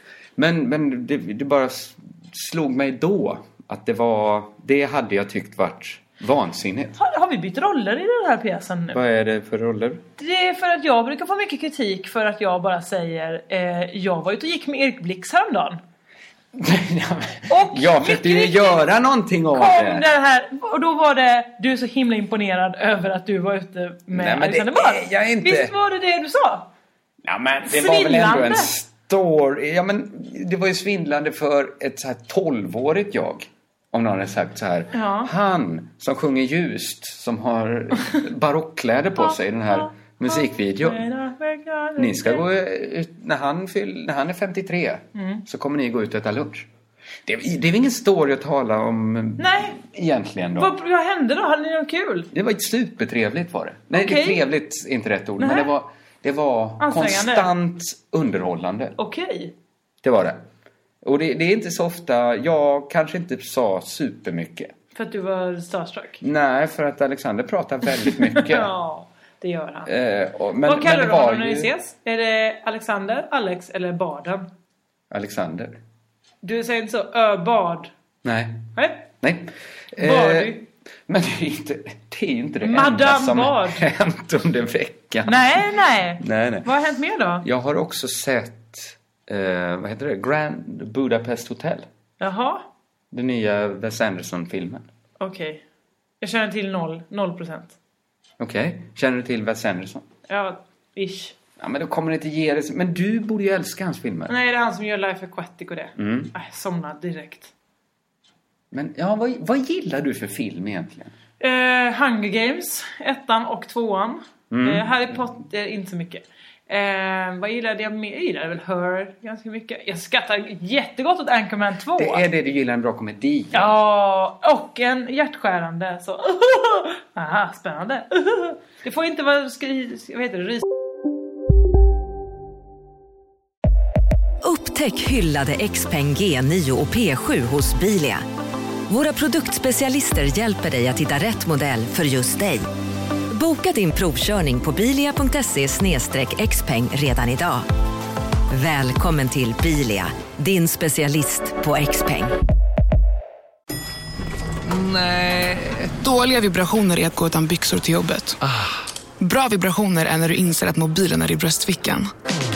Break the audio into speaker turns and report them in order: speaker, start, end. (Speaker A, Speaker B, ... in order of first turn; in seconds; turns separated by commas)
Speaker A: 0.4-7.0, Speaker B: 7.0-9.0, Speaker A: 8.9-10.0, Speaker B: 10.2-15.8, Speaker A: 16.5-20.1, Speaker B: 17.5-18.9, Speaker B: 19.5-26.7, Speaker A: 24.1-25.7, Speaker A: 27.2-41.0, Speaker B: 27.7-28.7, Speaker B: 34.9-35.3, Speaker B: 39.2-42.5, Speaker A: 42.0-46.7, Speaker B: 45.1-45.4, Speaker A: 47.2-50.7, Speaker B: 49.4-49.8, Speaker B: 50.6-52.3, Speaker A: 52.3-59.0, Speaker B: 53.9-54.4, Speaker B: 55.4-55.7, Speaker B: 56.8-57.5, Speaker B: 59.0-59.5, Speaker A: 60.0-60.4, Speaker A: 61.0-64.7, Speaker B: 65.0-66.2, Speaker A: 66.2-68.7, Speaker B: 68.0-69.9, Speaker A: 69.9-71.7, Speaker B: 70.7-74.5, Speaker A: 75.1-75.8, Speaker B: 76.4-77.9, Speaker A: 78.2-86.7, Speaker B: 78.8-79.1, Speaker B: 80.0-80.6, Speaker B: 82.6-83.8, Speaker B: 85.2-87.5, Speaker A: 87.4-91.9, Speaker B: 92.2-92.7, Speaker A: 93.1-94.9, Speaker B: 95.2-95.6, Speaker B: 96.2-97.8, Speaker A: 98.4-100.0, Speaker B: 100.3-101.4, Speaker A: 101.6-104.3, Speaker B: 104.3-107.5, Speaker A: 106.0-106.3, Speaker A: 108.7-111.1, Speaker B: 111.4-122.2, Speaker A: 114.5-115.2, Speaker A: 122.0-123.7, Speaker B: 123.5-130.7, Speaker C: 134.4-138.2, Speaker C: 138.9-142.7, Speaker C: 143.3-147.7, Speaker C: 148.5-152.3, Speaker D: 154.7-158.4, Speaker D: 159.2-162.1